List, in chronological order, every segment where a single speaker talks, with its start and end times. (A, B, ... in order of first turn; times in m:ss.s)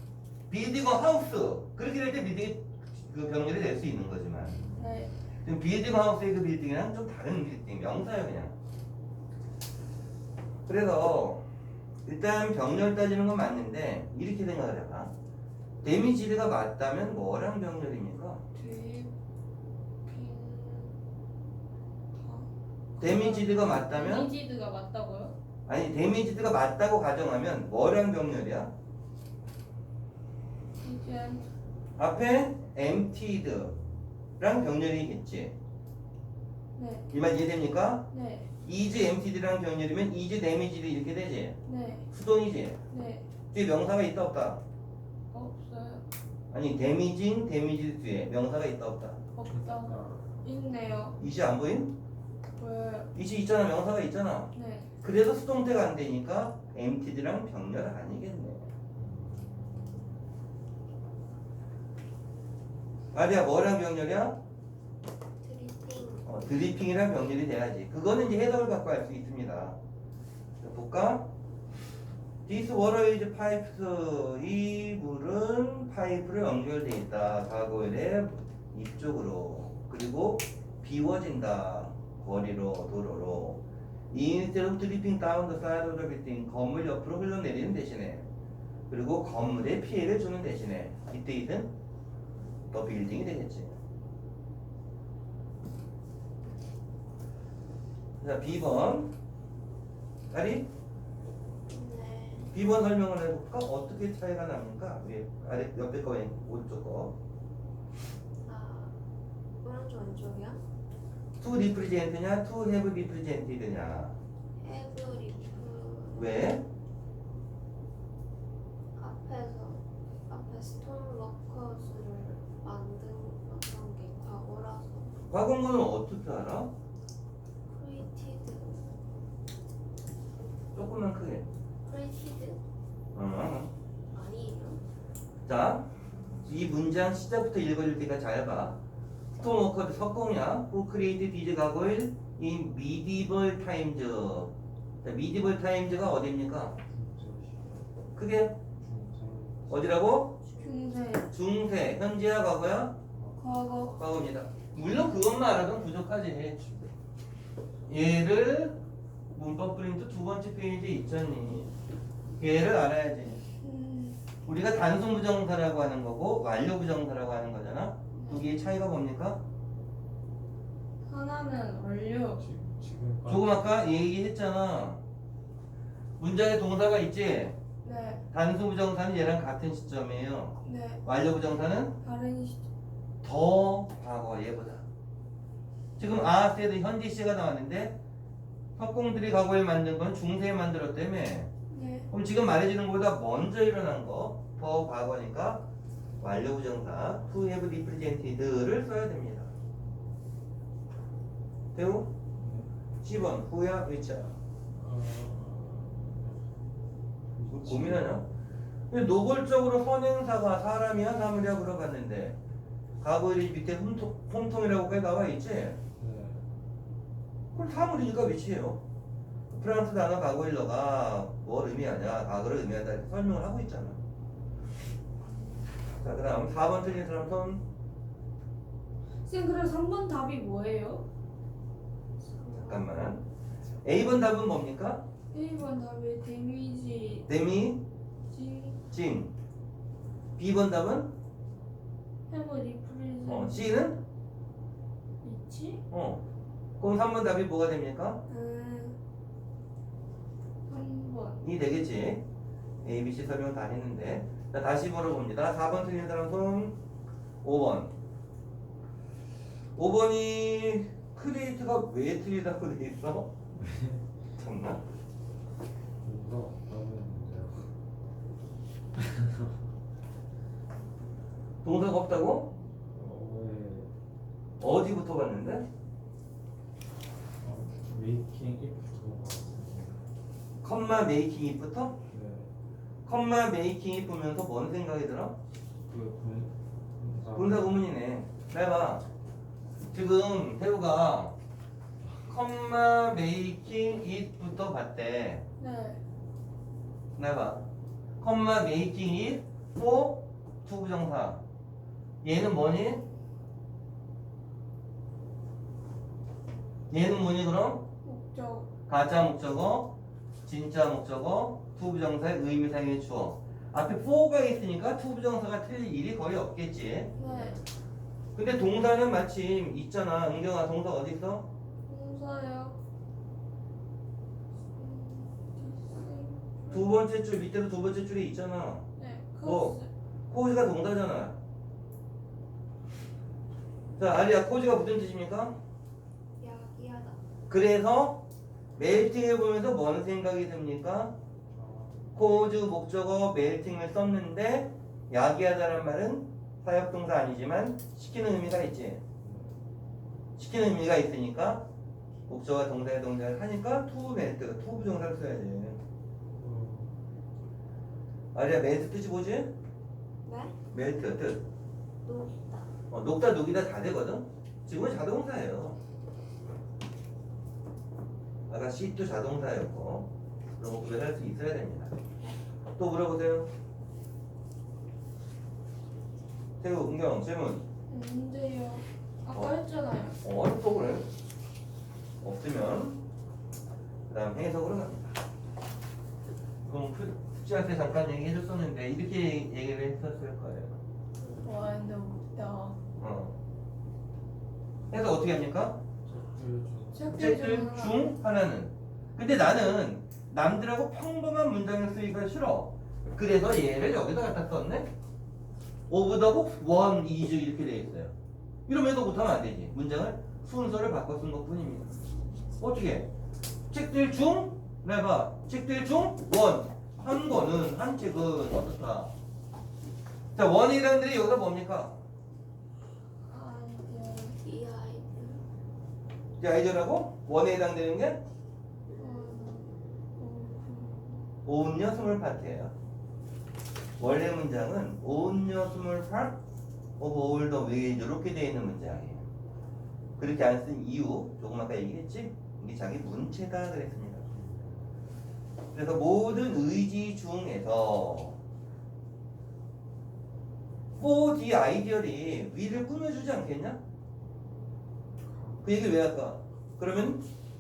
0:00.5-0:04.6 A
0:04.8-0:05.1 B
0:05.4-0:08.5 A
0:10.7-0:11.4 A
0:12.1-0:15.1 A
0:15.8-0:18.4 A
0:18.6-0:19.1 B
0:20.1-0:20.9 B
0:22.1-0:25.3 B
0:23.0-0:24.3 A
0:25.7-0:28.7 A
0:30.8-0:31.4 B
0:32.0-0:33.8 A
0:34.4-0:35.5 A
0:36.8-0:37.1 B
0:37.1-0:38.1 A
0:38.1-0:38.5 B
0:38.6-0:41.6 A
0:41.6-0:42.1 B
0:42.1-0:42.8 A
0:42.9-0:43.3 B
0:43.5-0:44.6 A
0:45.3-0:46.0 B
0:46.5-0:49.2 A
0:49.4-0:51.2 B
0:49.5-0:50.2 C
0:51.2-0:51.9 A
0:52.6-0:53.1 B
0:53.1-0:54.5 A
0:54.5-0:54.9 B
0:55.0-0:58.7 A
0:59.0-1:00.1 C
1:03.1-1:04.4 A
1:05.4-1:06.5 D
1:06.2-1:09.8 A
1:10.6-1:11.3 A
1:12.5-1:28.3 A
1:28.9-1:31.7 A
1:32.7-1:33.8 A
1:38.2-1:39.1 A
1:40.3-1:40.7 A
1:41.7-1:42.5 D
1:42.5-1:47.2 A
1:48.4-1:48.9 D
1:49.6-1:50.6 D
1:51.4-1:54.2 A
1:54.6-1:56.6 D
1:56.2-1:56.6 A
1:59.0-2:05.1 D
2:05.3-2:06.7 A
2:07.7-2:09.0 D
2:10.8-2:11.5 A
2:11.9-2:12.6 D
2:13.1-2:13.7 A
2:14.1-2:14.8 D
2:15.5-2:15.9 A
2:16.4-2:18.8 A
2:19.4-2:24.5 A
2:25.0-2:26.8 A
2:26.9-2:27.9 C
2:28.2-2:28.6 A
2:28.8-2:30.1 C
2:29.7-2:30.4 A
2:30.4-2:31.2 D
2:30.6-2:31.3 B
2:31.3-2:33.0 A
2:33.1-2:33.4 C
2:33.4-2:34.0 B
2:34.0-2:36.6 A
2:36.6-2:36.9 C
2:37.9-2:38.8 A
2:39.3-2:41.7 A
2:42.4-2:43.4 A
2:43.6-2:44.2 B
2:44.5-2:49.4 A
2:48.1-2:48.5 B
2:51.1-2:52.4 B
2:52.3-2:53.8 C
2:53.3-2:55.0 A
2:56.2-2:57.6 A
2:57.8-2:58.2 B
2:58.3-3:01.9 A
3:00.6-3:01.0 B
3:02.0-3:02.6 B
3:03.2-3:04.8 A
3:06.0-3:08.0 A
3:08.8-3:11.5 A
3:11.7-3:12.1 B
3:12.1-3:15.7 A
3:16.2-3:19.5 A
3:21.8-3:22.1 A
3:22.4-3:22.7 C
3:23.0-3:24.3 A
3:24.7-3:26.5 C
3:27.4-3:28.3 C
3:27.6-3:28.2 A
3:28.9-3:32.4 A
3:33.0-3:35.8 A
3:36.0-3:36.4 C
3:37.5-3:38.8 A
3:39.5-3:44.0 A
3:45.9-3:47.6 A
3:49.2-3:51.0 B
3:52.2-3:53.2 D
3:52.6-3:53.2 A
3:53.8-3:55.0 A
3:55.3-3:57.3 B
3:57.3-3:57.8 A
3:58.3-3:58.8 B
3:58.9-3:59.3 A
4:00.4-4:01.1 A
4:02.3-4:03.8 B
4:03.3-4:04.0 A
4:05.2-4:05.8 B
4:05.9-4:06.2 A
4:06.8-4:08.2 A
4:08.3-4:09.0 B
4:10.7-4:11.4 B
4:11.4-4:12.2 A
4:12.8-4:16.8 A
4:17.4-4:17.9 A
4:19.8-4:23.3 A
4:23.6-4:24.0 C
4:24.4-4:24.8 A
4:26.0-4:27.7 C
4:29.0-4:29.7 C
4:31.6-4:32.5 A
4:32.6-4:33.9 C
4:34.6-4:35.7 A
4:37.4-4:40.0 C
4:40.6-4:42.0 A
4:42.1-4:42.5 C
4:43.1-4:45.4 A
4:45.9-4:47.8 C
4:47.4-4:49.0 A
4:49.9-4:51.3 A
4:52.3-4:55.4 A
4:55.6-4:56.0 B
4:57.2-4:57.6 A
4:58.2-5:01.4 A
5:02.2-5:03.0 A
5:06.9-5:07.8 A
5:08.0-5:08.7 B
5:08.9-5:09.9 A
5:10.5-5:17.1 A
5:17.2-5:17.6 B
5:18.4-5:21.5 A
5:21.9-5:22.8 B
5:24.8-5:26.9 B
5:26.7-5:28.8 A
5:29.0-5:29.9 B
5:29.4-5:29.8 A
5:30.3-5:31.4 A
5:34.0-5:35.6 A
5:36.4-5:37.2 D
5:37.5-5:38.2 A
5:38.8-5:41.2 A
5:41.5-5:42.2 C
5:42.2-5:49.0 A
5:49.2-5:49.6 C
5:50.4-5:51.6 A
5:52.3-5:55.8 A
5:56.4-5:56.9 C
5:58.3-5:59.5 A
6:00.2-6:00.6 D
6:00.7-6:01.4 A
6:02.0-6:02.7 D
6:02.9-6:05.8 A
6:08.5-6:11.9 A
6:12.8-6:13.5 A
6:16.6-6:17.6 A
6:17.9-6:20.2 B
6:20.2-6:21.1 A
6:22.2-6:23.0 A
6:24.1-6:25.2 A
6:26.7-6:30.7 A
6:31.2-6:32.8 B
6:33.0-6:33.4 A
6:34.9-6:35.8 A
6:36.0-6:37.4 C
6:37.0-6:38.0 B
6:37.1-6:44.9 A
6:45.9-6:48.1 A
6:48.7-6:52.0 A
6:52.6-6:53.1 A
6:53.7-6:59.1 A
7:00.4-7:02.0 A
7:03.3-7:04.4 B
7:04.4-7:05.4 D
7:06.4-7:08.2 A
7:09.0-7:11.2 B
7:11.4-7:12.7 A
7:14.0-7:16.4 A
7:17.0-7:19.2 A
7:20.2-7:24.2 A
7:24.3-7:24.9 C
7:25.7-7:28.4 A
7:31.0-7:33.8 A
7:35.6-7:37.2 A